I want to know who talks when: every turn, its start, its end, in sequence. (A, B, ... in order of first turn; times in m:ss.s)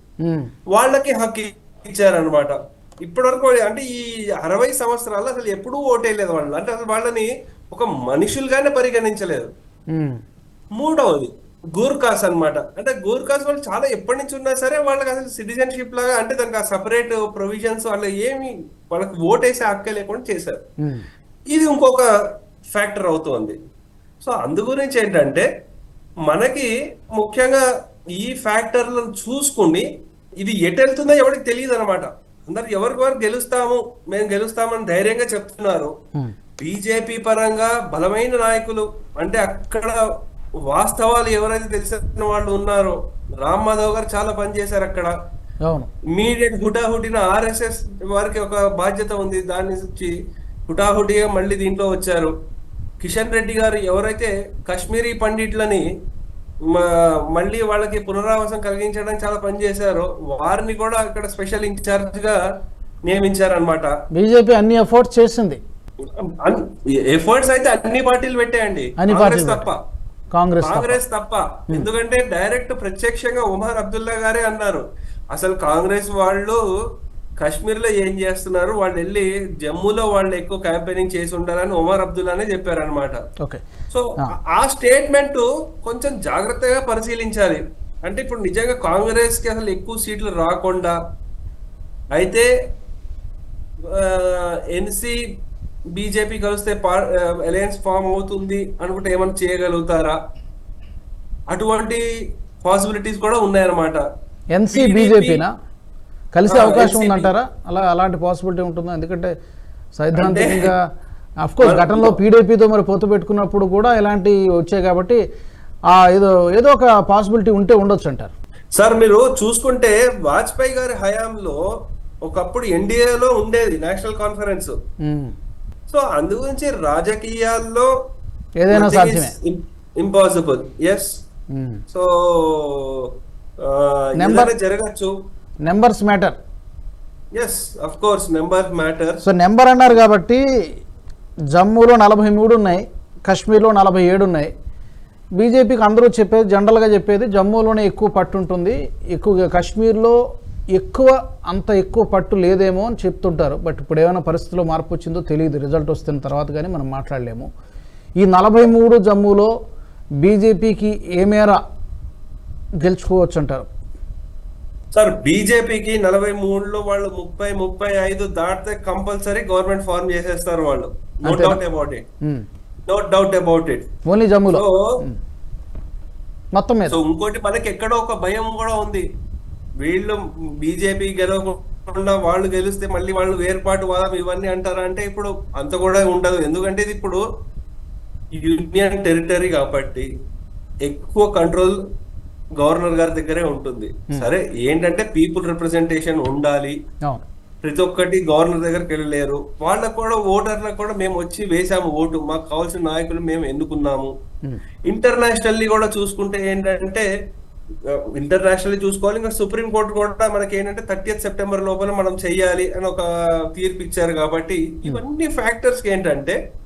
0:00.2-0:00.5 A
0:00.7-0:09.5 B
0:09.9-0:10.2 A
0:10.8-0:20.6 B
0:21.5-0:22.1 B
0:22.7-0:23.6 B
0:24.2-0:25.5 B
0:26.3-0:27.6 B
0:28.2-0:29.8 B
0:30.4-0:35.9 B
0:36.6-0:40.0 B
0:40.7-0:45.1 B
0:46.1-0:50.1 B
0:50.7-0:52.3 B
0:53.0-0:55.8 B
0:56.7-1:02.4 B
1:03.1-1:03.9 B
1:04.1-1:05.6 A
1:06.4-1:09.8 B
1:09.0-1:09.7 A
1:10.3-1:11.0 A
1:10.6-1:16.6 B
1:17.4-1:23.2 B
1:23.9-1:31.0 B
1:32.1-1:32.5 B
1:33.9-1:35.2 B
1:36.0-1:40.2 B
1:41.5-1:42.0 B
1:42.6-1:44.0 B
1:44.5-1:45.5 A
1:44.7-1:45.4 B
1:46.3-1:49.3 A
1:46.5-1:47.3 B
1:50.0-1:50.8 A
1:50.1-1:50.7 B
1:51.4-1:55.2 A
1:51.6-1:52.2 B
1:55.9-1:58.3 A
1:58.7-2:01.6 B
2:02.2-2:04.8 B
2:05.0-2:05.3 A
2:05.9-2:07.9 B
2:08.6-2:09.3 A
2:08.7-2:11.1 B
2:11.5-2:11.8 A
2:11.9-2:13.1 B
2:13.6-2:15.1 B
2:14.2-2:14.5 A
2:15.6-2:16.4 A
2:17.3-2:19.2 B
2:19.2-2:20.4 A
2:21.5-2:24.5 A
2:25.4-2:30.2 A
2:30.7-2:37.5 A
2:38.2-2:39.5 A
2:40.2-2:41.6 A
2:42.8-2:43.7 A
2:44.9-2:52.0 B
2:51.2-2:51.6 A
2:52.9-2:53.9 B
2:54.1-2:55.2 A
2:54.5-2:54.9 B
2:56.5-2:57.0 A
2:56.9-2:59.0 B
2:59.8-3:07.2 B
3:08.4-3:10.1 B
3:10.8-3:11.8 B
3:12.6-3:16.7 B
3:17.6-3:24.1 B
3:24.9-3:27.1 B
3:28.2-3:36.4 B